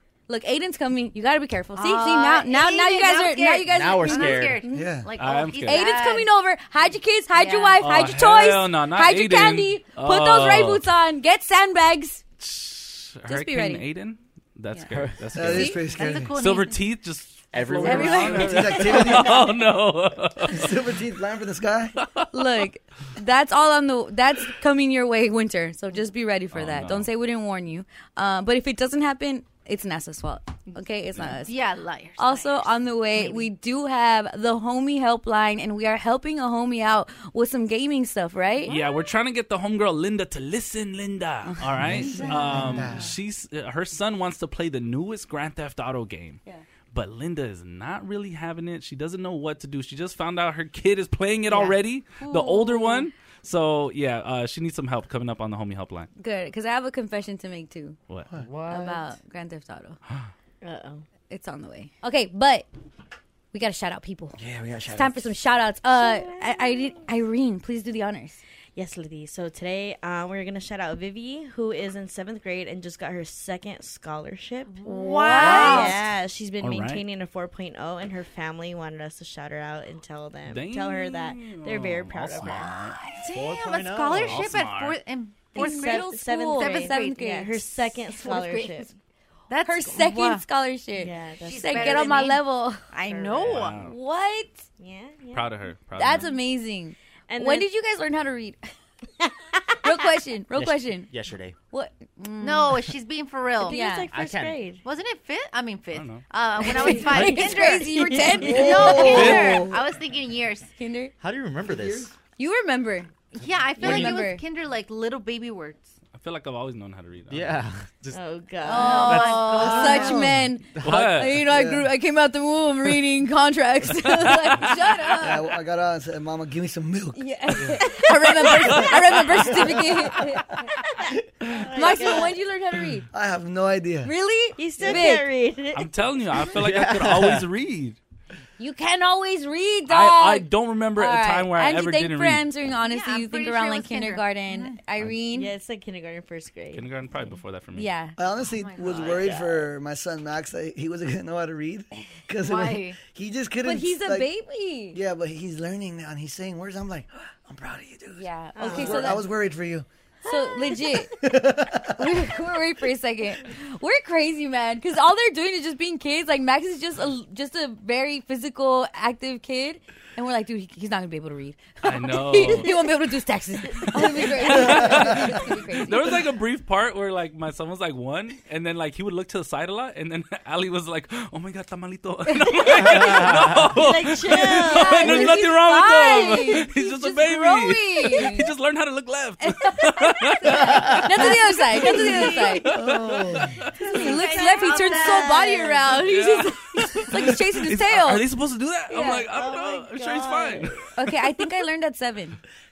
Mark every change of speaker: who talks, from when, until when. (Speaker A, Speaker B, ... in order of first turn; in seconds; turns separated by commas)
Speaker A: 0.3-4.9, Speaker B: 1.8-6.3, Speaker C: 3.7-4.6, Speaker D: 4.7-5.1, Speaker E: 5.2-5.8, Speaker A: 5.7-12.2, Speaker B: 7.3-7.8, Speaker E: 7.8-10.8, Speaker E: 12.4-20.7, Speaker A: 13.3-13.8, Speaker C: 14.9-15.4, Speaker D: 15.3-16.3, Speaker A: 15.5-15.8, Speaker B: 15.9-16.8, Speaker C: 17.5-19.0, Speaker A: 17.8-18.6, Speaker D: 18.3-19.5, Speaker D: 20.5-21.9, Speaker A: 22.3-31.5, Speaker E: 26.5-27.1, Speaker B: 31.3-33.5, Speaker A: 32.2-38.7, Speaker E: 38.7-46.4, Speaker B: 38.7-39.0, Speaker A: 41.5-42.8, Speaker D: 41.8-43.1, Speaker E: 46.9-56.1, Speaker A: 52.3-53.1, Speaker A: 56.2-58.0, Speaker C: 58.4-59.1, Speaker A: 58.7-60.0, Speaker F: 60.6-61.0, Speaker A: 61.3-62.7, Speaker A: 63.5-64.4, Speaker D: 64.4-65.3, Speaker A: 64.9-68.4, Speaker F: 65.9-67.0, Speaker F: 68.8-82.8, Speaker B: 74.8-76.0, Speaker A: 74.8-75.9, Speaker E: 76.6-77.0, Speaker E: 80.5-83.0, Speaker B: 83.2-87.3, Speaker C: 83.3-84.5, Speaker E: 84.1-85.0, Speaker F: 85.5-88.9, Speaker A: 85.5-88.8, Speaker B: 88.3-88.8, Speaker B: 89.5-90.4, Speaker A: 89.6-92.8, Speaker F: 91.0-92.3, Speaker B: 91.4-93.8, Speaker F: 93.0-93.5, Speaker E: 93.4-94.0, Speaker A: 93.6-94.7, Speaker F: 94.8-95.7, Speaker E: 95.3-96.3, Speaker A: 95.9-98.7, Speaker F: 97.3-97.7, Speaker F: 99.2-99.6, Speaker A: 99.8-101.1, Speaker C: 100.5-101.5, Speaker A: 101.7-102.9, Speaker B: 102.4-103.8, Speaker F: 103.6-104.8, Speaker A: 103.6-104.1, Speaker C: 104.1-104.6, Speaker B: 104.8-110.7, Speaker E: 105.9-106.2, Speaker A: 106.6-109.7, Speaker F: 106.7-109.3, Speaker D: 108.4-109.7, Speaker E: 109.1-109.6, Speaker A: 110.8-111.1, Speaker C: 111.2-112.1, Speaker D: 111.7-112.1, Speaker A: 112.4-113.1, Speaker B: 113.4-115.9, Speaker C: 113.7-114.2, Speaker A: 113.8-114.4, Speaker E: 116.1-117.6, Speaker C: 117.3-118.2, Speaker F: 118.1-120.1, Speaker A: 118.6-125.4, Speaker B: 118.7-120.2, Speaker D: 119.9-120.5, Speaker C: 120.8-121.1, Speaker E: 120.8-121.4, Speaker D: 121.4-121.9, Speaker D: 125.2-127.7, Speaker A: 127.1-130.7, Speaker E: 128.5-128.9, Speaker F: 131.4-132.4, Speaker A: 131.7-133.1, Speaker D: 133.1-134.1, Speaker A: 134.0-135.3, Speaker F: 134.6-135.9, Speaker E: 135.7-138.0, Speaker C: 136.5-137.5, Speaker A: 138.6-145.5, Speaker E: 139.9-142.4, Speaker B: 142.8-144.8, Speaker F: 145.3-146.8, Speaker E: 146.7-147.9, Speaker A: 147.7-148.2, Speaker D: 148.2-154.3, Speaker B: 148.5-149.2, Speaker F: 148.9-149.7, Speaker B: 152.4-153.0, Speaker A: 153.6-155.0, Speaker D: 154.9-159.8, Speaker A: 158.2-159.2, Speaker F: 158.5-159.2, Speaker A: 160.2-161.2, Speaker D: 161.2-162.3, Speaker A: 161.9-176.1, Speaker E: 171.8-172.8, Speaker D: 173.9-175.5, Speaker E: 174.3-191.3, Speaker A: 182.3-183.1, Speaker F: 183.7-185.4, Speaker A: 184.7-188.5, Speaker A: 189.4-192.7, Speaker B: 191.7-192.5, Speaker F: 191.8-192.6, Speaker D: 192.7-193.6, Speaker E: 192.7-193.4, Speaker A: 193.8-198.2, Speaker B: 193.9-195.7, Speaker F: 194.0-195.9, Speaker E: 196.0-200.9, Speaker A: 198.9-199.3, Speaker F: 199.3-200.7, Speaker A: 200.9-202.4